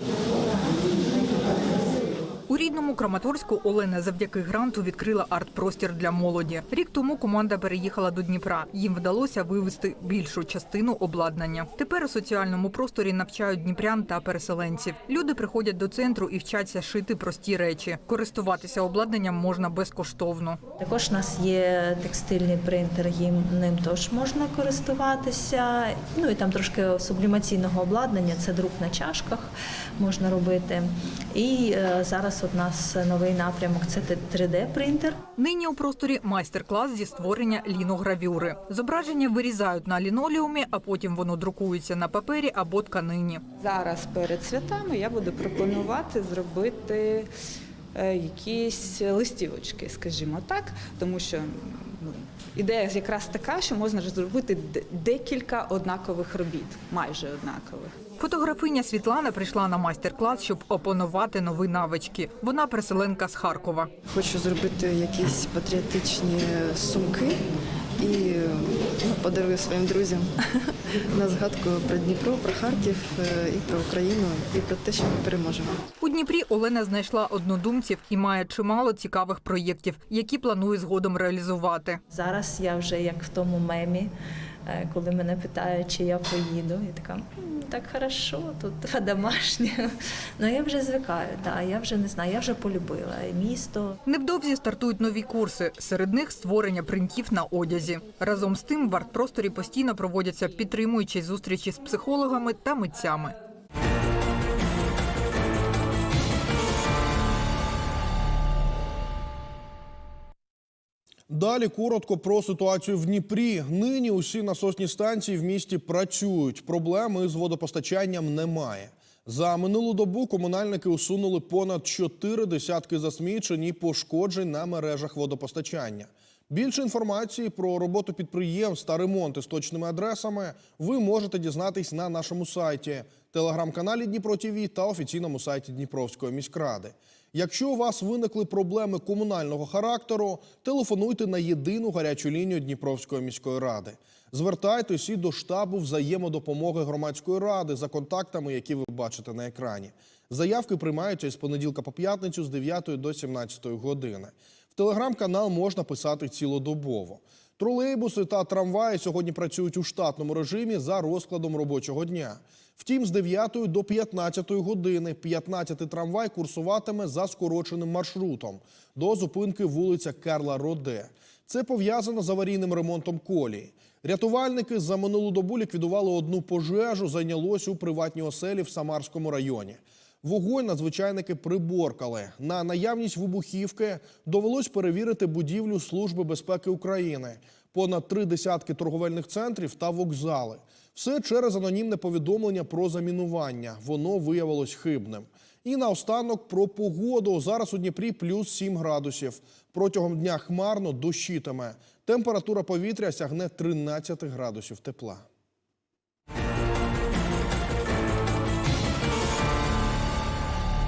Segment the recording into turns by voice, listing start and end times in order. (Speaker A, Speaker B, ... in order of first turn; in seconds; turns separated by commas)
Speaker A: 2.5-20.6, Speaker B: 20.8-35.2, Speaker A: 35.4-43.4, Speaker C: 43.6-47.2, Speaker C: 48.0-51.5, Speaker C: 52.6-57.9, Speaker A: 58.2-63.9, Speaker D: 64.1-67.4, Speaker D: 68.0-70.3, Speaker D: 71.1-75.8, Speaker A: 76.0-82.0, Speaker B: 82.1-84.1, Speaker B: 84.7-93.9, Speaker A: 94.0-103.3, Speaker E: 111.3-205.2